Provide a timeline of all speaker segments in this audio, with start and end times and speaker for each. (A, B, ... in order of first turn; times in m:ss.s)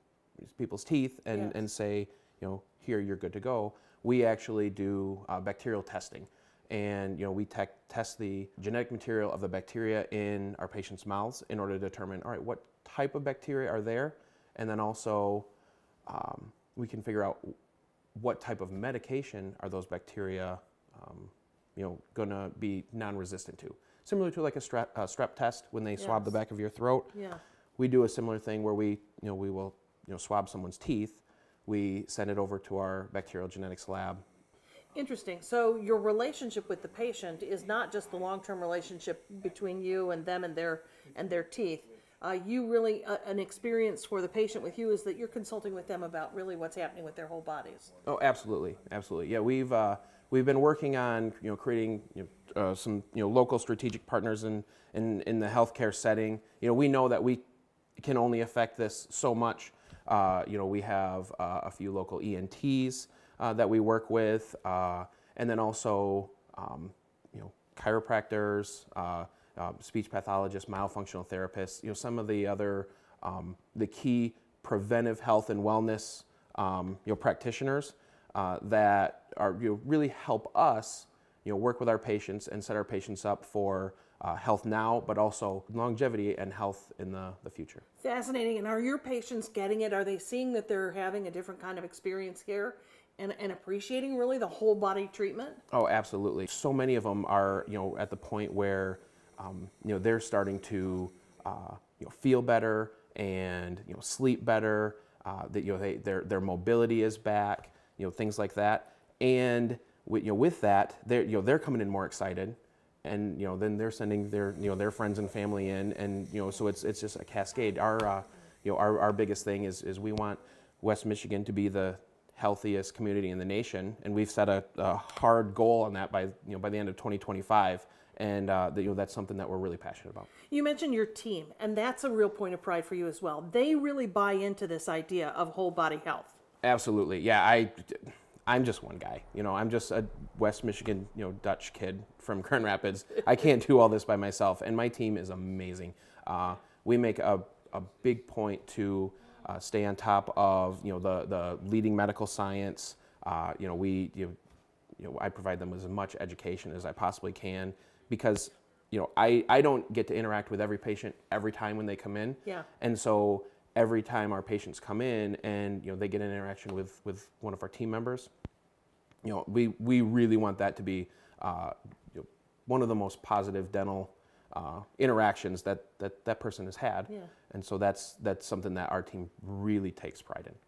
0:00.4-0:15.5 A
0:16.1-0:17.6 A
0:18.2-0:27.1 A
0:26.0-0:26.3 B
0:27.1-0:27.4 B
0:27.8-0:34.2 A
0:35.0-0:47.9 B
0:48.0-0:57.4 A
0:58.0-1:27.8 A
1:28.0-1:35.6 B
1:35.7-2:10.3 A
2:10.5-2:16.4 B
2:16.6-2:34.4 A
2:35.0-2:48.3 A
2:49.2-3:00.6 A